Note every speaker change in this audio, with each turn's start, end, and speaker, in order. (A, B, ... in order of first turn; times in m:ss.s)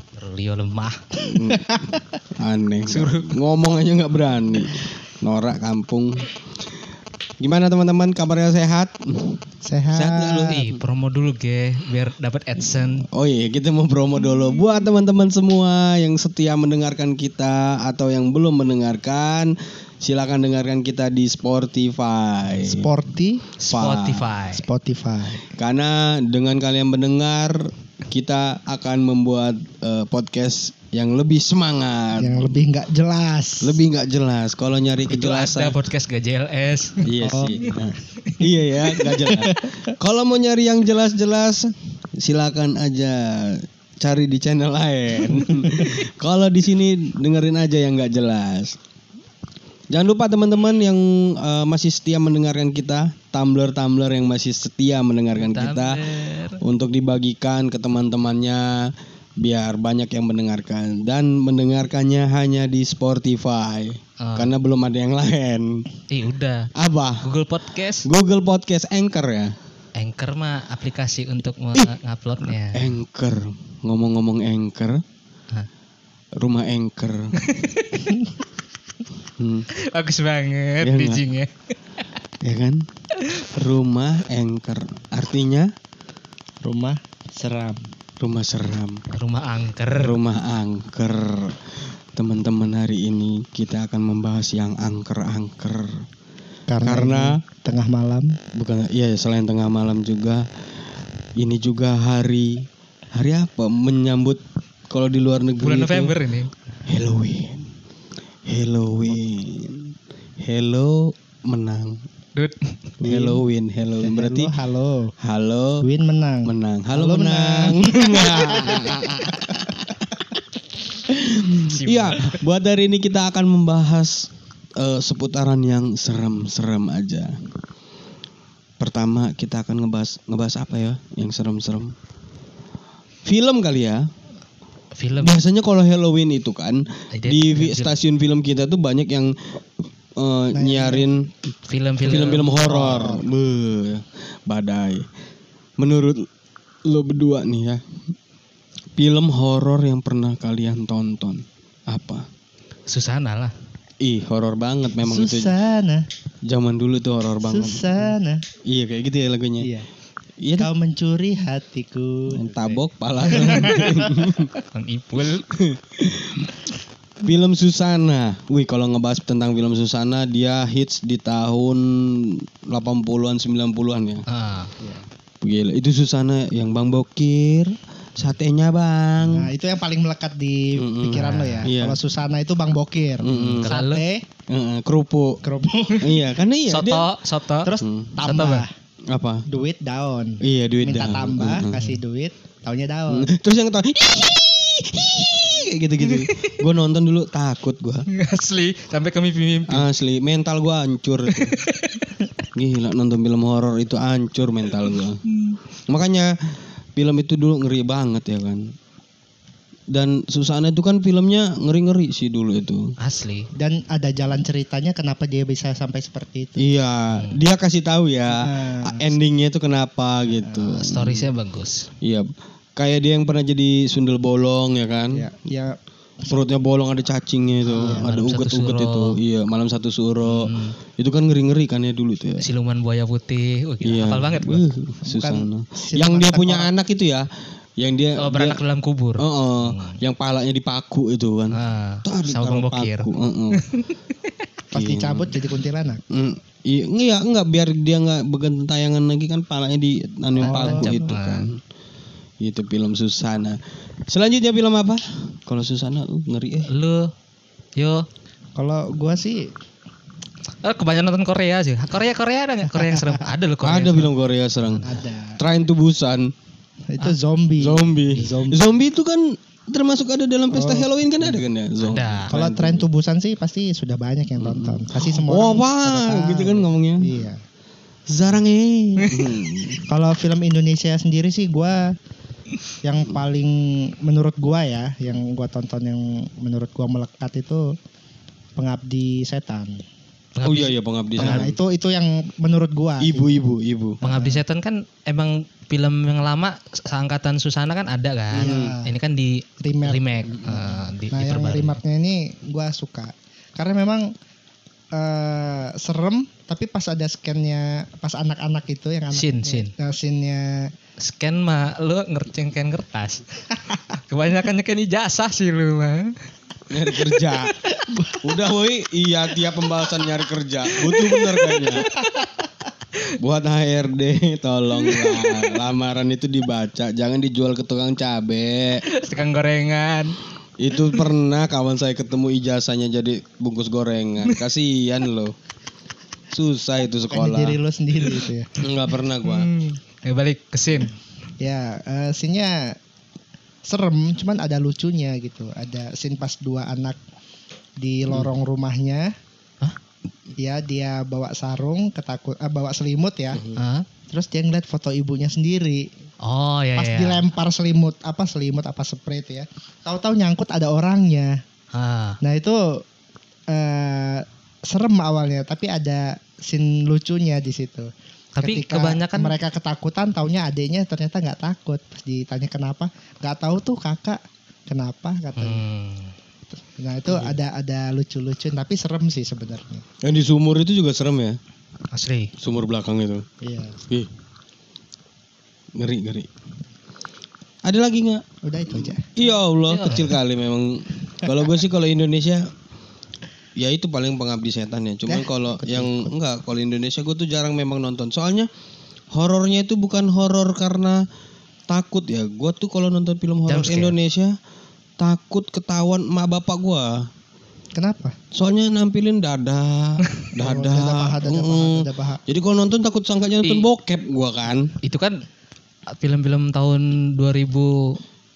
0:00.2-0:01.1 A
0:01.2-0:06.3 B
0:01.6-0:01.8 C
0:02.9-0:03.4 A
0:07.4-0:10.8 B
0:09.6-0:10.5 C
0:10.5-0:13.1 A
0:12.8-0:22.9 B
0:22.6-0:23.4 C
0:23.6-0:24.6 A
0:23.7-0:24.3 B
0:24.5-0:25.4 C
0:25.4-0:32.6 B
0:32.2-0:33.8 C
0:33.6-0:35.8 B
0:35.1-0:37.0 A
0:37.0-0:48.8 B
0:37.2-0:37.6 C
0:38.8-0:39.9 C
0:49.9-1:05.8 B
0:55.4-0:56.6 A
1:04.2-1:04.5 A
1:06.1-1:06.7 A
1:06.7-1:07.3 B
1:07.2-1:08.1 A
1:08.0-1:09.6 B
1:10.0-1:12.9 A
1:12.7-1:15.0 B
1:16.4-1:17.3 B
1:17.4-1:18.1 A
1:19.4-1:19.7 B
1:19.7-1:21.5 A
1:20.8-1:21.2 B
1:22.4-1:22.8 B
1:23.5-1:25.7 B
1:26.6-1:27.8 C
1:28.2-1:29.0 B
1:29.1-1:30.2 A
1:29.9-1:36.0 B
1:36.7-1:38.4 C
1:36.8-1:37.4 B
1:38.5-1:40.5 B
1:41.4-1:46.1 B
1:45.6-1:46.5 A
1:46.8-1:47.7 B
1:48.5-1:52.0 B
1:52.4-1:52.8 A
1:53.0-1:53.4 C
1:53.0-1:54.6 B
1:54.0-1:55.1 C
1:55.2-1:55.8 B
1:55.8-1:59.6 C
1:56.4-2:00.0 B
2:01.1-2:07.4 B
2:01.5-2:02.4 A
2:08.8-2:11.9 B
2:13.2-2:14.1 B
2:15.0-2:15.4 A
2:15.2-2:19.6 B
2:17.1-2:18.0 A
2:20.2-2:21.3 B
2:20.5-2:21.0 C
2:21.7-2:22.8 A
2:22.0-2:25.1 B
2:22.6-2:23.2 C
2:25.8-2:26.3 B
2:26.8-2:27.8 B
2:29.0-2:32.3 B
2:32.9-2:33.5 A
2:34.0-2:35.5 B
2:35.0-2:36.1 C
2:36.4-2:38.1 B
2:37.4-2:38.4 C
2:38.6-2:39.7 B
2:39.6-2:39.9 C
2:40.4-2:40.7 B
2:40.6-2:42.8 C
2:42.3-2:44.5 B
2:43.4-2:44.3 C
2:44.7-2:45.4 A
2:45.5-2:46.5 B
2:47.2-2:54.2 B
2:54.3-2:54.7 A
2:55.4-2:59.5 B
2:59.2-3:04.2 C
3:00.8-3:02.0 B
3:01.1-3:01.7 A
3:03.2-3:03.7 B
3:03.6-3:04.0 A
3:04.5-3:05.4 B
3:05.4-3:06.2 C
3:06.0-3:07.1 B
3:06.7-3:07.7 A
3:07.6-3:08.7 C
3:07.8-3:08.1 B
3:08.2-3:08.6 A
3:09.1-3:09.4 B
3:09.5-3:13.3 C
3:10.4-3:11.9 B
3:13.1-3:18.1 B
3:16.1-3:16.5 A
3:18.1-3:19.8 A
3:19.7-3:21.6 B
3:21.3-3:22.1 A
3:22.5-3:25.2 B
3:25.9-3:26.3 B
3:26.9-3:28.7 B
3:29.9-3:32.9 B
3:33.0-3:33.5 A
3:33.5-3:36.6 C
3:36.6-3:41.3 B
3:37.1-3:37.4 A
3:38.3-3:39.1 C
3:40.6-3:41.9 A
3:42.0-3:45.3 B
3:45.1-3:46.4 C
3:46.3-3:52.4 B
3:47.7-3:48.2 C
3:47.8-3:49.2 A
3:50.2-3:50.8 A
3:52.4-3:54.6 A
3:53.8-3:58.6 B
3:55.0-3:56.7 C
3:58.2-4:00.0 A
3:59.2-4:03.6 B
4:01.5-4:03.8 A
4:04.7-4:06.0 C
4:04.7-4:05.3 B
4:06.1-4:11.6 B
4:10.4-4:11.0 C
4:10.4-4:11.5 A
4:12.4-4:16.7 B
4:16.7-4:17.1 A
4:17.8-4:18.1 A
4:18.6-4:19.5 C
4:20.6-4:24.1 A
4:22.7-4:23.2 C
4:23.6-4:26.3 B
4:24.8-4:25.4 C
4:26.9-4:28.6 C
4:27.6-4:32.8 B
4:30.5-4:31.3 C
4:31.8-4:32.3 A
4:32.3-4:37.4 C
4:34.4-4:37.1 B
4:38.1-4:39.8 B
4:39.9-4:41.9 C
4:42.8-4:47.8 C
4:48.6-4:49.8 C
4:50.4-4:51.5 A
4:50.4-4:51.6 B
4:51.2-4:53.4 C
4:53.0-4:54.0 B
4:54.0-5:01.8 A
4:54.0-4:54.4 C
4:58.3-4:58.9 C
4:58.4-4:58.8 B
4:59.6-5:04.1 C
5:04.9-5:10.7 C
5:09.1-5:09.7 A
5:11.0-5:13.2 A
5:13.9-5:16.1 A
5:16.7-5:17.6 B
5:17.8-5:18.2 C
5:18.2-5:21.9 B
5:21.5-5:22.3 A
5:23.2-5:28.8 B
5:24.9-5:25.5 A
5:28.8-5:30.2 A
5:30.6-5:35.3 B
5:36.3-5:37.6 B
5:37.1-5:38.5 C
5:38.6-5:39.5 B
5:39.2-5:40.9 A
5:41.4-5:42.8 C
5:43.6-5:47.0 C
5:47.8-5:49.1 C
5:50.4-5:53.4 C
5:53.6-5:53.8 A
5:54.1-5:55.9 C
5:56.2-5:57.2 A
5:56.8-6:01.4 C
6:01.7-6:02.2 A
6:02.2-6:02.8 C
6:03.5-6:07.9 C
6:08.4-6:09.3 A
6:08.4-6:15.6 C
6:15.4-6:16.1 A
6:16.8-6:19.8 C
6:20.0-6:21.4 B
6:21.9-6:22.3 A
6:22.4-6:23.2 B
6:23.4-6:23.8 C
6:25.7-6:26.3 B
6:27.6-6:32.5 B
6:28.4-6:29.1 C
6:29.7-6:30.2 A
6:33.6-6:38.5 B
6:35.1-6:36.1 C
6:39.1-6:41.0 B
6:41.7-6:44.3 B
6:43.5-6:43.9 A
6:45.0-6:47.1 B
6:47.7-6:48.1 C
6:48.3-6:54.7 B
6:50.4-6:52.2 C
6:54.8-6:55.2 A
6:55.9-6:58.0 A